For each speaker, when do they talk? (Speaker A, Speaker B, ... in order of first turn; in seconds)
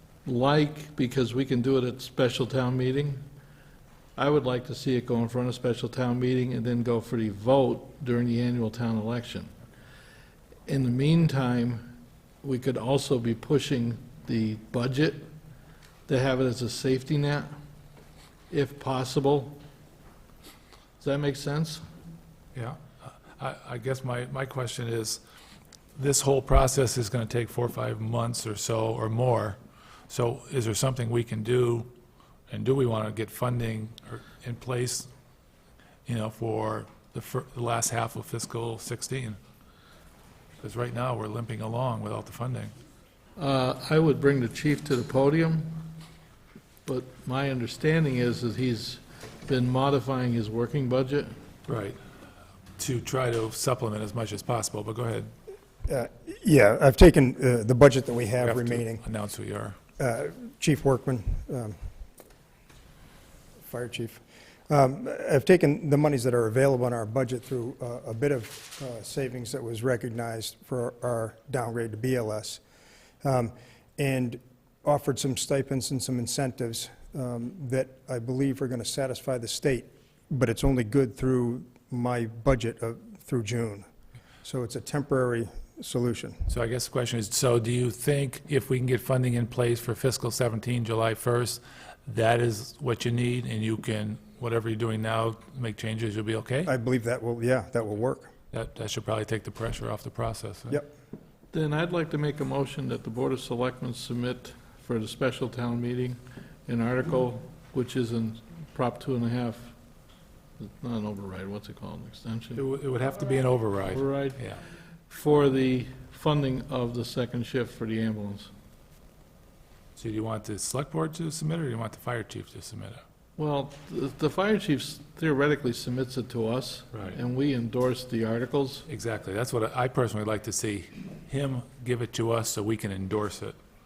Speaker A: 0.2-3.2, 4.2-9.5, 10.7-15.3, 16.1-17.5, 18.5-19.6, 21.0-21.9, 43.4-45.9, 46.9-51.4, 101.5-109.7, 110.6-112.7, 113.9-114.4, 115.1-118.5, 123.4-128.8
Speaker B: 22.5-22.8, 23.3-25.2, 25.9-29.6, 30.1-31.9, 32.5-35.1, 36.0-39.4, 40.6-42.7, 51.7-52.0, 52.8-55.3, 58.4-59.8, 86.5-96.7, 98.5-100.8, 112.5-114.6, 120.0-123.0, 126.9-127.2, 128.9-133.6
Speaker C: 55.9-59.0, 60.0-61.8, 63.6-72.6, 73.2-83.8, 84.4-86.4, 96.7-98.3